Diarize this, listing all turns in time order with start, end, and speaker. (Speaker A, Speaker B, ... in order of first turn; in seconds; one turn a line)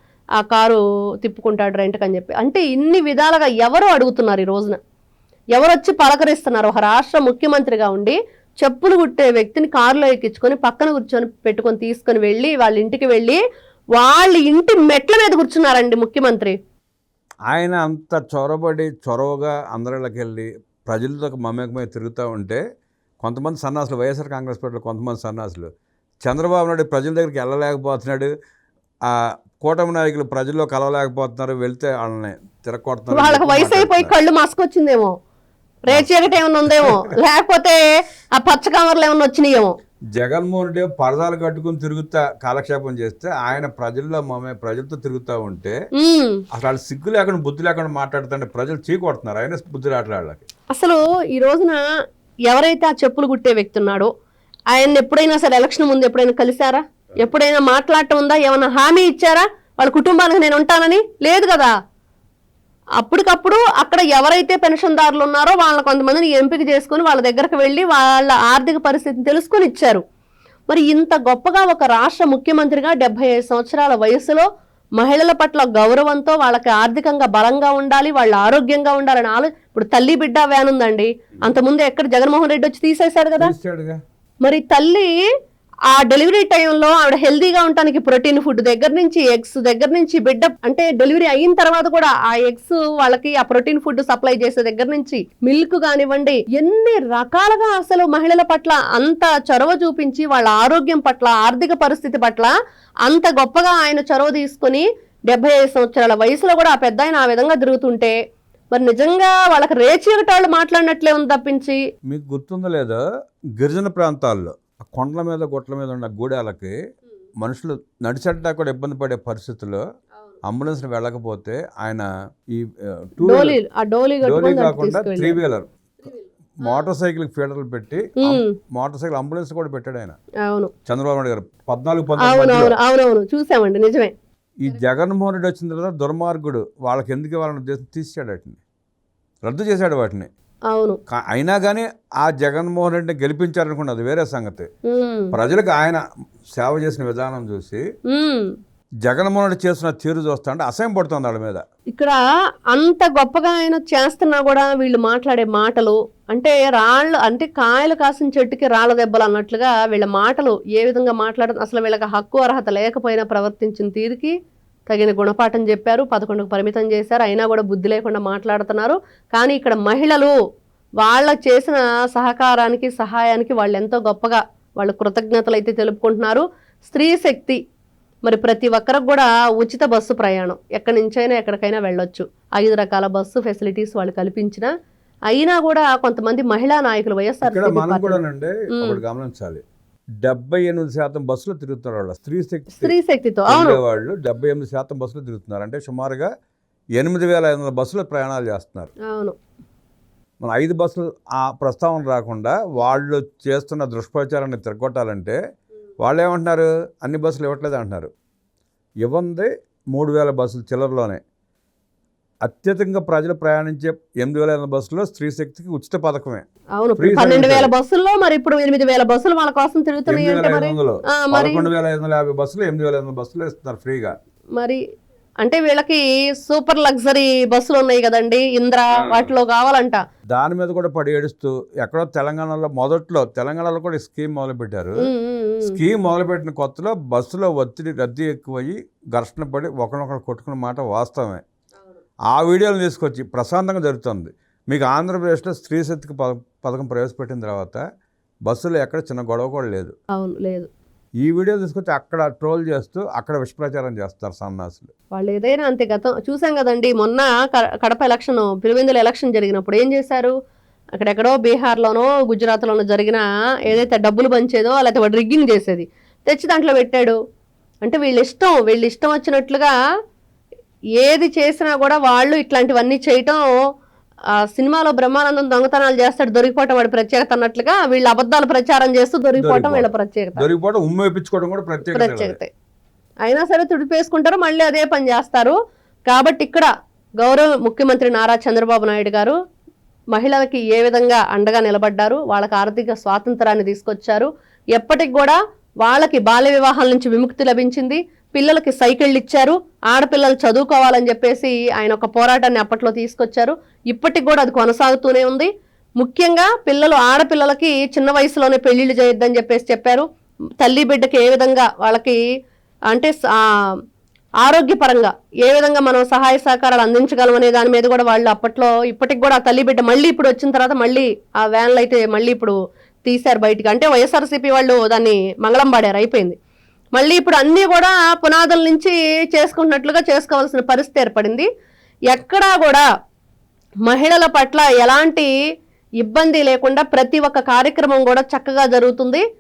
Speaker A: 0.4-4.8
Speaker A: 5.5-13.4
Speaker A: 13.9-16.6
Speaker B: 17.5-22.6
Speaker B: 23.2-25.7
Speaker B: 26.2-28.3
Speaker B: 29.1-34.1
Speaker A: 33.1-35.1
Speaker A: 35.9-37.8
Speaker B: 36.7-37.0
Speaker A: 38.4-39.7
Speaker B: 40.1-45.8
Speaker A: 46.0-46.4
Speaker B: 46.5-50.5
Speaker A: 50.7-51.8
Speaker A: 52.5-54.1
Speaker A: 54.7-61.7
Speaker A: 63.0-70.0
Speaker A: 70.7-74.5
Speaker A: 75.0-83.5
Speaker B: 83.4-84.0
Speaker A: 84.4-85.2
Speaker A: 85.9-102.5
Speaker A: 103.0-108.2
Speaker A: 108.7-111.8
Speaker B: 112.1-113.0
Speaker B: 113.6-116.7
Speaker B: 117.4-119.8
Speaker B: 120.4-123.6
Speaker A: 123.2-125.4
Speaker B: 124.2-125.7
Speaker A: 126.0-126.9
Speaker B: 126.6-130.2
Speaker A: 128.2-128.5
Speaker A: 130.4-130.7
Speaker B: 130.9-132.8
Speaker A: 132.2-134.1
Speaker B: 134.6-138.6
Speaker B: 139.4-140.3
Speaker A: 140.7-141.0
Speaker B: 141.1-144.7
Speaker A: 144.9-145.3
Speaker B: 145.3-146.0
Speaker B: 146.5-147.8
Speaker A: 148.1-148.5
Speaker B: 149.0-151.6
Speaker A: 152.7-164.3
Speaker A: 164.9-170.3
Speaker A: 171.0-177.6
Speaker A: 178.3-184.7
Speaker A: 185.3-188.2
Speaker B: 187.4-189.6
Speaker B: 190.2-192.9
Speaker A: 192.8-193.8
Speaker B: 193.5-196.3
Speaker B: 197.0-198.9
Speaker A: 199.1-199.4
Speaker B: 200.4-205.4
Speaker B: 206.0-208.1
Speaker B: 209.0-211.2
Speaker B: 212.4-216.5
Speaker A: 216.8-221.7
Speaker B: 217.0-217.7
Speaker B: 220.1-224.1
Speaker A: 225.4-230.0
Speaker B: 229.0-229.3
Speaker B: 230.3-235.1
Speaker A: 235.0-235.8
Speaker B: 235.6-241.4
Speaker B: 242.3-247.8
Speaker B: 248.5-249.9
Speaker A: 250.1-250.7
Speaker B: 251.2-254.9
Speaker A: 255.1-260.3
Speaker A: 261.0-267.2
Speaker A: 267.8-269.7
Speaker A: 271.0-273.4
Speaker A: 274.3-280.4
Speaker B: 279.4-282.4
Speaker A: 281.9-282.5
Speaker A: 283.2-285.6
Speaker A: 286.1-286.7
Speaker A: 287.2-289.4
Speaker A: 290.1-310.1
Speaker A: 310.6-312.2
Speaker A: 312.9-313.8
Speaker A: 314.4-326.4
Speaker A: 326.9-331.5
Speaker A: 332.1-332.8
Speaker A: 333.9-335.3
Speaker A: 336.0-339.2